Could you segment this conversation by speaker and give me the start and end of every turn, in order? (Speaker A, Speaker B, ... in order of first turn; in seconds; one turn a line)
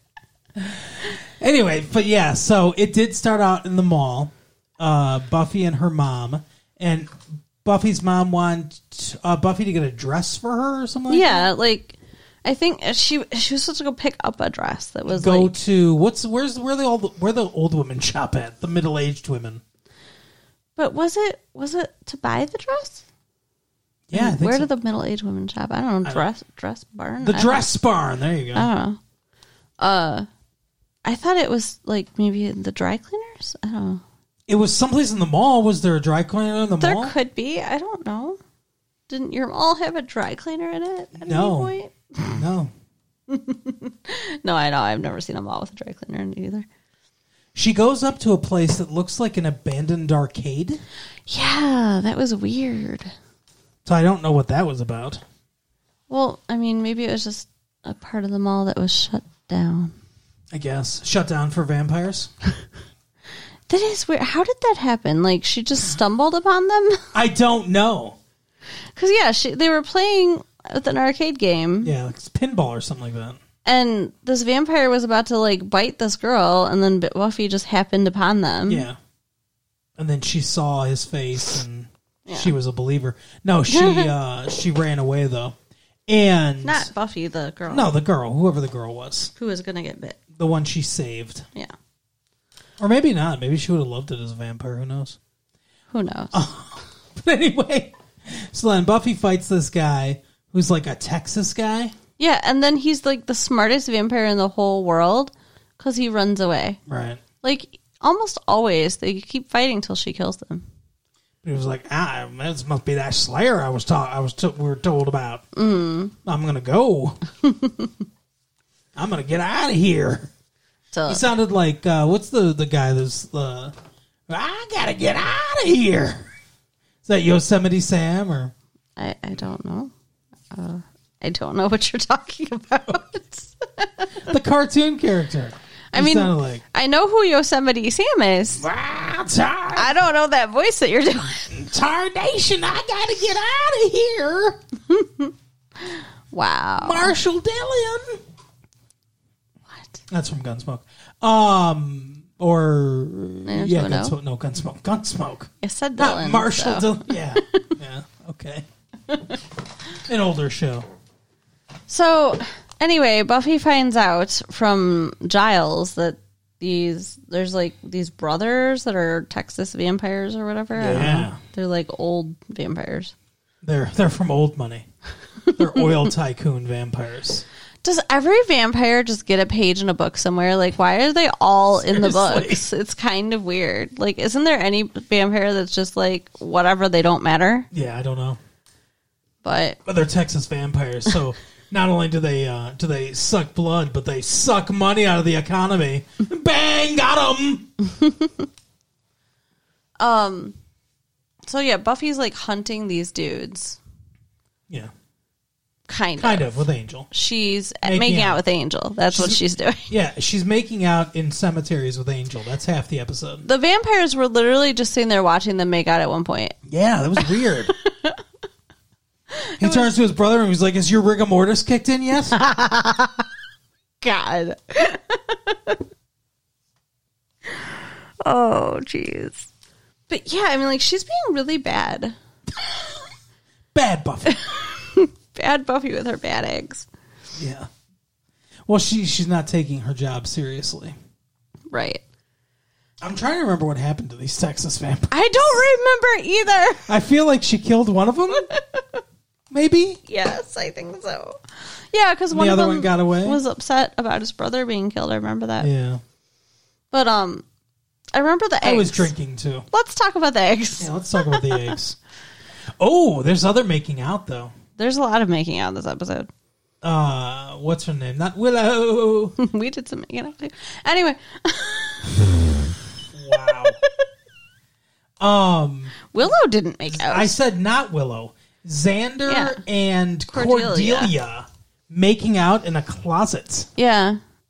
Speaker A: 0.6-11.5
Speaker B: 11.1-15.6
Speaker A: 15.1-19.6
Speaker B: 20.8-23.0
Speaker A: 24.1-24.7
Speaker B: 24.1-27.7
Speaker A: 27.2-28.7
Speaker B: 28.6-29.0
Speaker B: 29.8-30.3
Speaker B: 31.1-34.0
Speaker A: 34.5-37.1
Speaker B: 36.8-38.4
Speaker B: 39.1-42.4
Speaker A: 41.1-42.7
Speaker B: 43.3-46.7
Speaker A: 47.5-50.8
Speaker B: 51.3-53.1
Speaker A: 53.9-55.2
Speaker B: 56.1-60.0
Speaker A: 60.5-62.3
Speaker B: 63.7-67.1
Speaker A: 67.1-68.2
Speaker B: 69.0-71.9
Speaker A: 71.8-73.4
Speaker B: 73.7-78.9
Speaker A: 78.7-79.0
Speaker A: 80.0-85.5
Speaker B: 82.3-82.5
Speaker B: 83.7-84.1
Speaker A: 86.1-86.9
Speaker B: 86.6-87.9
Speaker A: 87.7-89.3
Speaker B: 89.4-90.2
Speaker A: 90.3-91.5
Speaker A: 92.8-95.2
Speaker B: 95.9-96.4
Speaker A: 96.3-102.0
Speaker B: 102.2-106.8
Speaker A: 106.9-107.2
Speaker B: 107.4-110.7
Speaker A: 111.4-115.5
Speaker B: 115.5-116.1
Speaker A: 116.2-117.2
Speaker B: 117.4-117.9
Speaker A: 119.0-120.3
Speaker B: 120.9-121.2
Speaker A: 121.1-123.7
Speaker A: 124.3-126.3
Speaker A: 127.0-128.5
Speaker B: 129.0-129.9
Speaker B: 130.5-134.3
Speaker A: 134.3-136.6
Speaker B: 135.9-138.7
Speaker A: 138.6-139.9
Speaker B: 139.7-141.6
Speaker A: 141.5-144.6
Speaker B: 144.9-147.2
Speaker A: 146.8-148.2
Speaker B: 149.7-150.0
Speaker A: 150.1-158.7
Speaker B: 153.5-154.2
Speaker B: 155.6-157.8
Speaker B: 159.1-159.3
Speaker A: 160.1-160.9
Speaker B: 161.9-173.1
Speaker A: 170.8-171.4
Speaker A: 173.6-174.9
Speaker B: 175.5-175.8
Speaker A: 175.6-177.4
Speaker B: 177.8-187.7
Speaker A: 181.9-182.6
Speaker A: 187.7-188.4
Speaker B: 189.4-189.8
Speaker A: 189.8-197.7
Speaker B: 197.9-198.5
Speaker B: 200.0-200.6
Speaker B: 201.5-203.8
Speaker B: 205.9-209.9
Speaker A: 206.2-207.1
Speaker A: 207.8-208.4
Speaker A: 209.1-213.4
Speaker B: 213.4-216.6
Speaker A: 216.7-217.7
Speaker B: 217.2-218.2
Speaker B: 219.3-219.9
Speaker A: 219.6-222.4
Speaker B: 222.3-223.2
Speaker B: 224.0-225.8
Speaker B: 227.5-229.5
Speaker B: 230.1-232.2
Speaker A: 233.7-234.4
Speaker B: 234.2-236.9
Speaker A: 237.3-237.7
Speaker A: 238.7-240.9
Speaker B: 241.7-242.0
Speaker A: 243.0-245.1
Speaker B: 245.1-246.9
Speaker A: 246.9-248.5
Speaker B: 248.3-249.0
Speaker A: 249.5-250.0
Speaker B: 250.1-255.7
Speaker A: 252.3-253.4
Speaker A: 255.6-256.0
Speaker B: 256.9-257.4
Speaker B: 258.1-259.1
Speaker A: 258.6-259.7
Speaker B: 259.7-261.8
Speaker A: 260.8-262.0
Speaker A: 262.8-264.5
Speaker B: 264.8-266.3
Speaker A: 266.8-269.4
Speaker B: 269.4-272.6
Speaker A: 273.1-273.8
Speaker B: 273.3-274.0
Speaker A: 275.2-276.0
Speaker B: 276.1-277.4
Speaker A: 276.9-283.7
Speaker B: 279.3-279.6
Speaker B: 280.3-281.1
Speaker B: 283.8-284.2